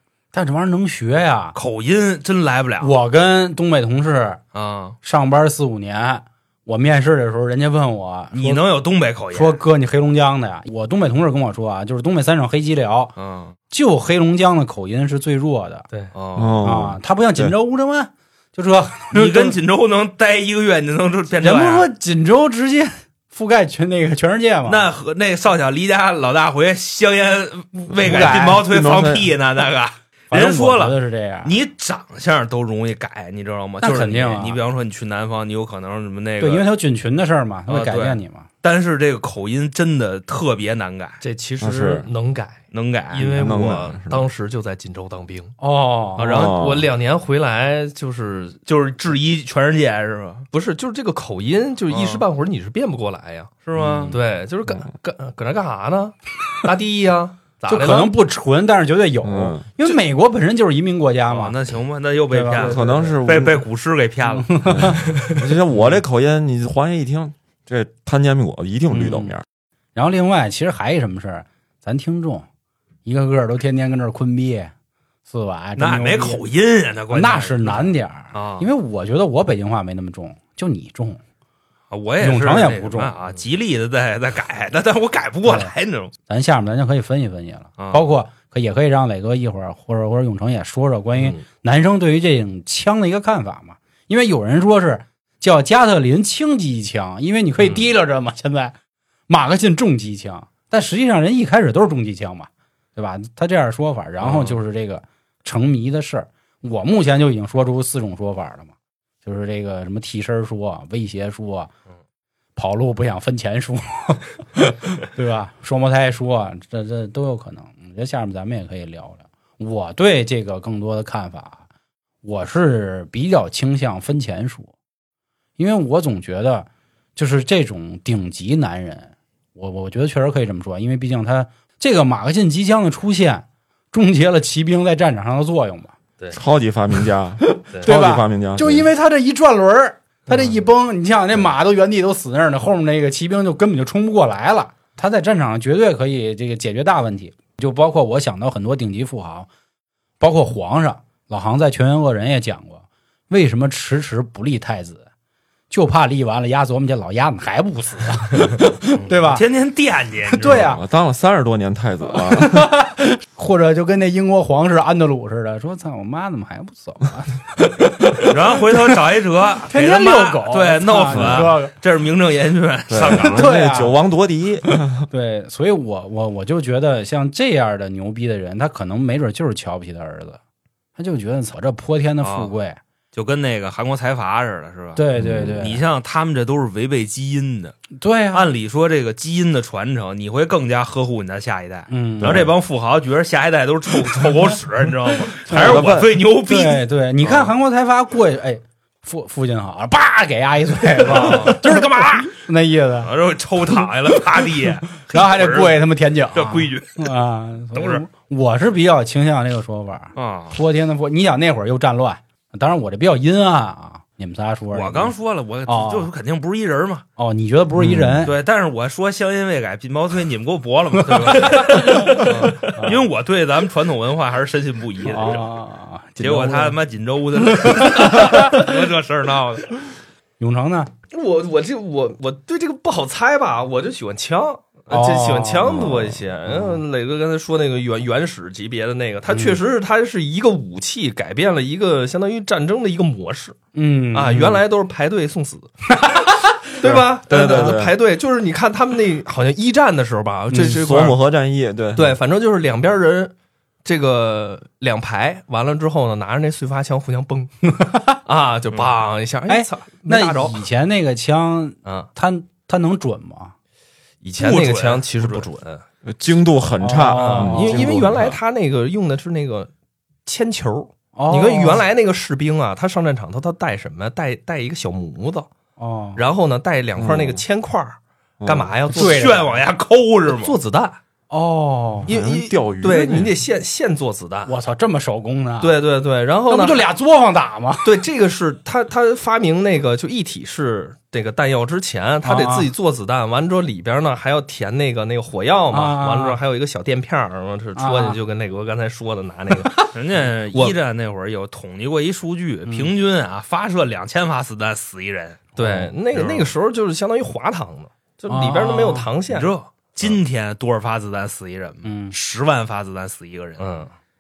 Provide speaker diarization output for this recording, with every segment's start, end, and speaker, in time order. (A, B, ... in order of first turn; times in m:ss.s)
0:00.3-0:01.6 A
0:01.6-0:03.0 B
0:02.8-0:04.4 A
0:04.5-0:05.0 B
0:05.0-0:08.6 A
0:08.3-0:09.6 B
0:09.3-0:13.1 A
0:13.2-0:13.6 B
0:13.7-0:15.9 A
0:16.1-0:16.6 B
0:16.4-0:17.5 C
0:16.6-0:19.6 A
0:19.1-0:21.9 B
0:21.4-0:24.9 A
0:24.7-0:36.7 B
0:27.9-0:29.3 C
0:28.0-0:28.7 A
0:30.3-0:31.5 A
0:33.8-0:34.6 A
0:36.4-0:38.5 A
0:37.7-0:41.2 B
0:41.2-0:42.6 D
0:41.6-0:42.1 C
0:42.7-0:43.4 B
0:43.1-0:45.6 D
0:43.2-0:44.3 C
0:45.6-0:46.5 A
0:46.2-0:48.6 D
0:46.2-0:46.9 C
0:48.7-0:50.5 B
0:50.5-0:58.1 D
0:51.9-0:52.3 B
0:53.6-0:54.2 B
0:53.8-0:54.1 C
0:57.6-0:58.0 B
0:57.7-1:01.6 A
0:59.2-0:59.7 C
1:01.3-1:05.0 B
1:02.3-1:03.2 A
1:02.6-1:03.6 C
1:04.3-1:05.0 A
1:04.7-1:09.4 C
1:08.9-1:09.4 A
1:10.0-1:12.5 A
1:13.0-1:14.7 A
1:15.3-1:16.4 A
1:15.8-1:18.7 B
1:17.1-1:21.2 A
1:21.9-1:26.1 B
1:22.2-1:23.2 A
1:25.4-1:25.7 A
1:26.3-1:38.7 A
1:27.8-1:28.1 B
1:31.2-1:31.4 D
1:39.3-1:48.7 A
1:44.2-1:44.6 B
1:49.2-1:51.7 A
1:52.6-2:01.6 A
2:02.2-2:04.7 A
2:05.6-2:15.9 A
2:16.3-2:18.9 C
2:17.5-2:29.5 A
2:30.2-2:35.0 A
2:35.7-2:39.4 A
2:39.0-2:40.7 B
2:40.3-2:40.8 A
2:40.5-2:42.7 C
2:42.2-2:48.9 A
2:48.2-2:53.5 B
2:49.6-2:51.7 A
2:51.1-2:51.5 C
2:52.9-2:55.1 C
2:53.1-2:54.0 A
2:55.1-3:00.4 A
3:01.0-3:02.8 A
3:02.2-3:02.5 B
3:03.1-3:07.8 B
3:05.0-3:05.8 A
3:05.2-3:05.6 C
3:08.0-3:08.5 A
3:08.3-3:17.5 B
3:11.9-3:12.5 A
3:12.2-3:12.5 C
3:15.5-3:15.8 A
3:15.5-3:16.1 C
3:16.4-3:23.1 A
3:21.0-3:22.1 B
3:23.0-3:25.8 B
3:23.6-3:35.1 A
3:26.3-3:27.1 B
3:27.7-3:28.0 B
3:30.2-3:30.6 B
3:34.7-3:37.0 B
3:35.7-3:36.1 A
3:37.2-3:38.4 A
3:37.8-3:38.3 C
3:38.2-3:45.5 B
3:41.1-3:43.1 A
3:45.1-3:46.8 A
3:46.2-3:49.8 B
3:47.5-3:48.7 A
3:50.4-3:50.9 A
3:51.1-4:03.6 D
3:54.9-3:56.0 A
3:55.7-3:56.1 C
3:59.3-3:59.6 A
4:03.8-4:04.6 A
4:04.1-4:05.7 D
4:06.0-4:06.7 A
4:06.8-4:11.2 D
4:06.9-4:08.0 C
4:07.4-4:07.8 A
4:10.5-4:12.2 C
4:12.0-4:20.6 D
4:17.8-4:18.2 A
4:19.5-4:23.5 A
4:24.2-4:25.8 D
4:24.4-4:25.5 B
4:26.0-4:28.4 C
4:26.8-4:27.9 A
4:27.1-4:29.7 D
4:30.3-4:35.5 D
4:31.2-4:31.8 A
4:35.8-4:36.2 A
4:36.2-4:39.6 D
4:37.0-4:37.4 C
4:38.4-4:38.7 C
4:38.9-4:40.6 B
4:38.9-4:39.5 A
4:40.3-4:41.0 D
4:41.3-4:42.1 A
4:42.1-4:43.4 C
4:42.1-4:44.5 D
4:44.5-4:45.8 A
4:45.6-4:46.9 D
4:46.5-4:47.9 A
4:47.8-4:59.9 D
4:52.2-4:52.7 A
4:55.7-4:56.4 A
4:57.8-4:58.2 A
4:59.9-5:05.6 B
5:02.7-5:02.9 A
5:05.6-5:09.5 D
5:06.1-5:06.6 B
5:08.3-5:09.1 A
5:09.3-5:13.9 B
5:11.8-5:12.1 A
5:13.6-5:13.9 D